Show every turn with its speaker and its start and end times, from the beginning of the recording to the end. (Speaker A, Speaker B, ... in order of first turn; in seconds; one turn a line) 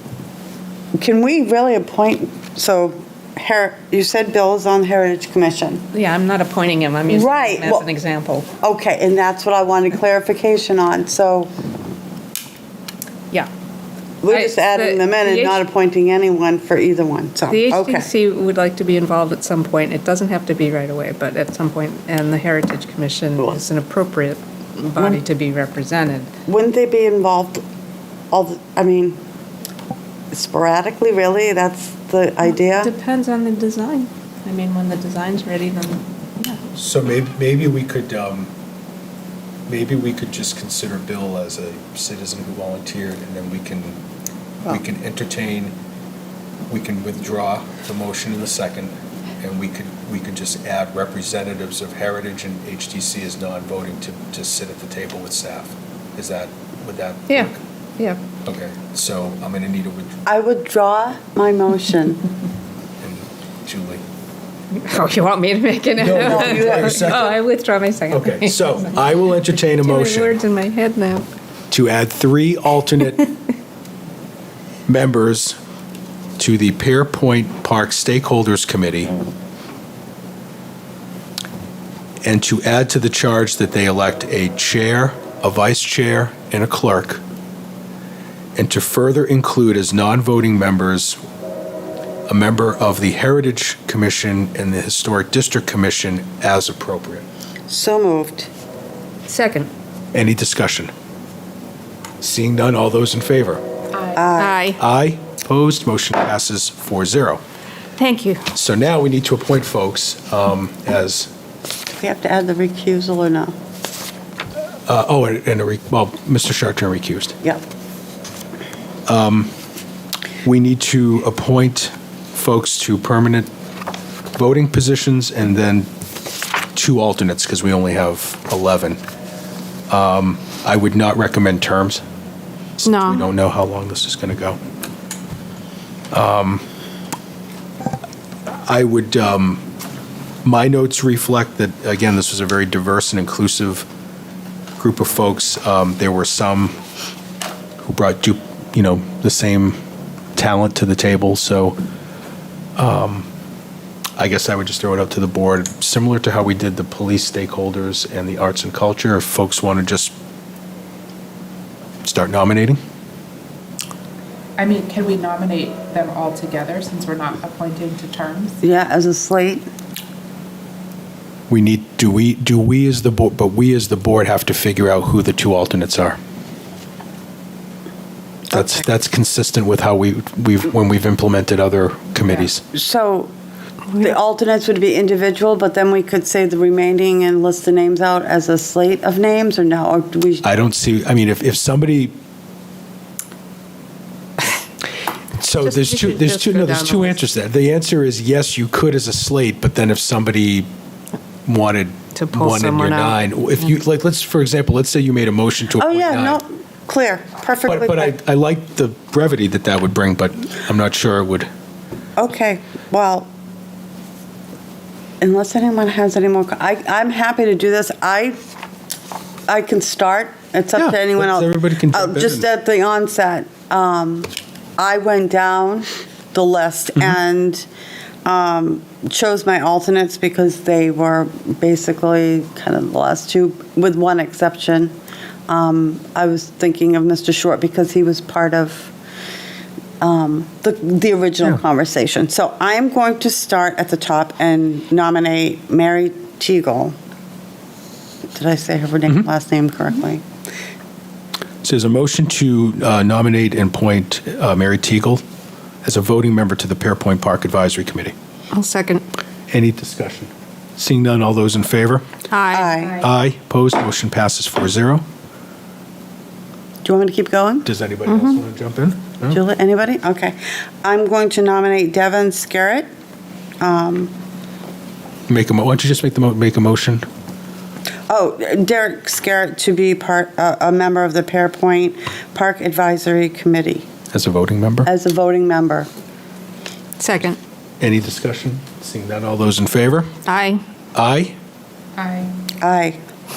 Speaker A: 1.0-5.8
Speaker B: 5.9-8.5
Speaker A: 7.1-7.8
Speaker A: 8.6-11.5
Speaker A: 14.2-18.1
Speaker B: 14.3-15.6
Speaker B: 17.5-26.3
Speaker A: 26.5-27.6
Speaker A: 28.3-29.2
Speaker A: 30.3-32.9
Speaker B: 32.7-36.6
Speaker C: 36.7-38.5
Speaker C: 39.7-44.0
Speaker C: 44.6-45.7
Speaker C: 46.7-57.6
Speaker B: 57.3-58.2
Speaker C: 58.4-60.2
Speaker A: 60.2-62.2
Speaker C: 63.0-64.0
Speaker B: 64.7-68.8
Speaker C: 66.0-67.4
Speaker A: 66.1-67.2
Speaker C: 68.1-70.3
Speaker B: 69.8-71.2
Speaker C: 71.7-73.3
Speaker C: 74.9-75.6
Speaker C: 76.4-79.1
Speaker C: 82.2-87.2
Speaker C: 88.5-91.2
Speaker C: 92.3-97.2
Speaker A: 97.7-98.5
Speaker B: 99.3-99.7
Speaker C: 100.1-100.9
Speaker C: 102.2-103.6
Speaker D: 103.9-104.2
Speaker A: 104.2-104.6
Speaker B: 104.4-104.8
Speaker C: 104.8-107.4
Speaker B: 108.0-108.5
Speaker C: 108.5-111.3
Speaker A: 112.0-113.5
Speaker C: 114.9-117.4
Speaker C: 119.0-119.5
Speaker C: 120.4-123.5
Speaker C: 124.3-125.9
Speaker C: 126.7-129.0
Speaker C: 129.9-132.0
Speaker C: 132.8-134.6
Speaker B: 132.8-133.3
Speaker C: 136.1-136.6
Speaker C: 138.5-139.7
Speaker C: 140.4-143.9
Speaker C: 144.8-146.8
Speaker C: 147.8-149.8
Speaker C: 150.3-151.8
Speaker C: 152.8-153.3
Speaker C: 154.2-160.1
Speaker C: 162.0-162.8
Speaker D: 164.6-168.6
Speaker A: 168.6-169.6
Speaker C: 171.5-176.2
Speaker C: 178.5-182.6
Speaker A: 182.7-183.3
Speaker A: 183.9-190.4
Speaker C: 190.4-192.1
Speaker C: 195.4-200.7
Speaker B: 195.6-197.2
Speaker C: 201.4-206.4
Speaker B: 202.1-203.2
Speaker A: 205.8-208.1
Speaker C: 207.7-211.5
Speaker A: 212.2-213.3
Speaker A: 215.2-218.4
Speaker A: 219.5-227.7
Speaker C: 220.8-222.4
Speaker A: 228.2-234.9
Speaker A: 235.5-238.9
Speaker A: 240.0-246.9
Speaker A: 248.3-250.2
Speaker C: 251.6-255.2
Speaker C: 255.8-258.1
Speaker B: 258.5-259.0
Speaker C: 259.5-262.1
Speaker B: 262.3-262.7
Speaker A: 262.5-263.1
Speaker D: 262.8-263.1
Speaker C: 263.0-265.0
Speaker A: 266.8-267.7
Speaker C: 267.6-269.4
Speaker B: 268.1-268.4
Speaker A: 269.2-272.9
Speaker A: 273.6-274.1
Speaker C: 275.3-277.0
Speaker A: 278.1-283.9
Speaker C: 284.1-284.9
Speaker A: 284.8-285.9
Speaker B: 287.0-287.4
Speaker C: 287.8-290.1
Speaker B: 290.2-290.6
Speaker C: 290.9-291.3
Speaker D: 291.9-292.4
Speaker A: 292.6-293.0